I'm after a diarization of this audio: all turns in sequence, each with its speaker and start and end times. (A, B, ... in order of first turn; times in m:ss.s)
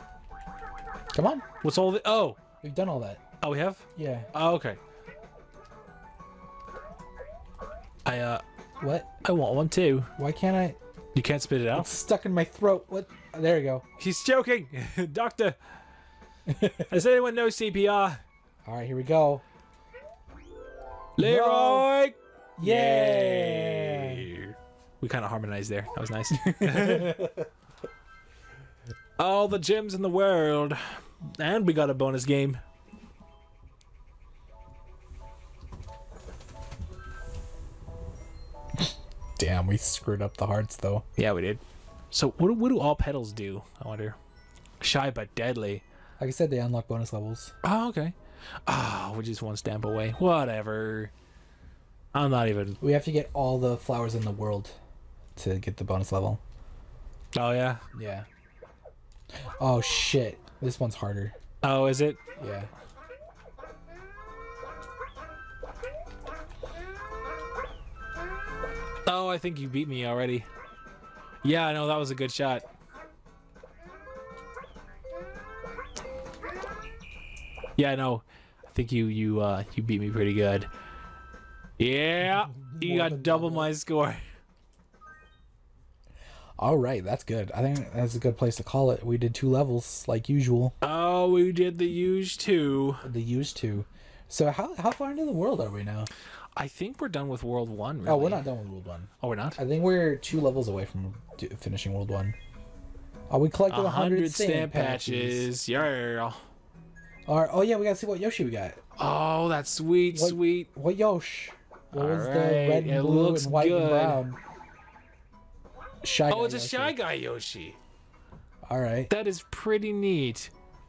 0:01.1-0:01.4 A
0:01.6-0:02.4 B
0:02.6-0:03.2 A
0:03.4-0:04.8 B
0:04.0-0:04.3 A
0:08.0-0:08.4 B
0:08.8-0:09.1 A
0:09.2-0:10.1 B
0:10.2-0:10.8 A
0:11.1-0:11.9 B
0:11.7-0:13.8 A
0:14.0-0:15.6 B
0:16.5-0:16.9 A
0:16.9-0:18.2 B
0:18.6-0:19.4 A
0:21.2-0:27.2 B
0:21.2-0:21.9 A
0:22.6-0:24.3 A
0:26.4-0:27.4 A
0:29.2-0:32.6 B
0:39.4-0:41.0 A
0:41.2-0:44.2 B
0:44.8-0:45.8 B
0:46.2-0:47.5 A
0:47.6-0:51.1 B
0:52.1-0:52.8 B
0:52.8-0:54.8 A
0:55.4-0:56.4 A
0:57.3-0:57.8 B
0:57.9-0:58.3 A
0:59.6-1:01.3 A
1:01.6-1:02.2 B
1:02.4-1:02.7 A
1:09.0-1:10.5 B
1:11.4-1:12.6 B
1:17.8-1:20.7 B
1:21.8-1:24.2 B
1:22.3-1:23.7 A
1:26.6-1:30.8 A
1:30.8-1:33.0 B
1:33.0-1:36.1 A
1:36.6-1:38.4 B
1:38.0-1:42.4 A
1:39.2-1:39.6 B
1:43.3-1:45.5 A
1:43.7-1:46.4 B
1:47.3-1:48.8 A
1:49.0-1:50.7 B
1:50.1-1:54.4 A
1:51.9-1:54.2 B
1:56.0-1:57.0 A
1:56.3-1:57.8 B
1:58.6-1:59.1 A
1:59.1-2:00.5 B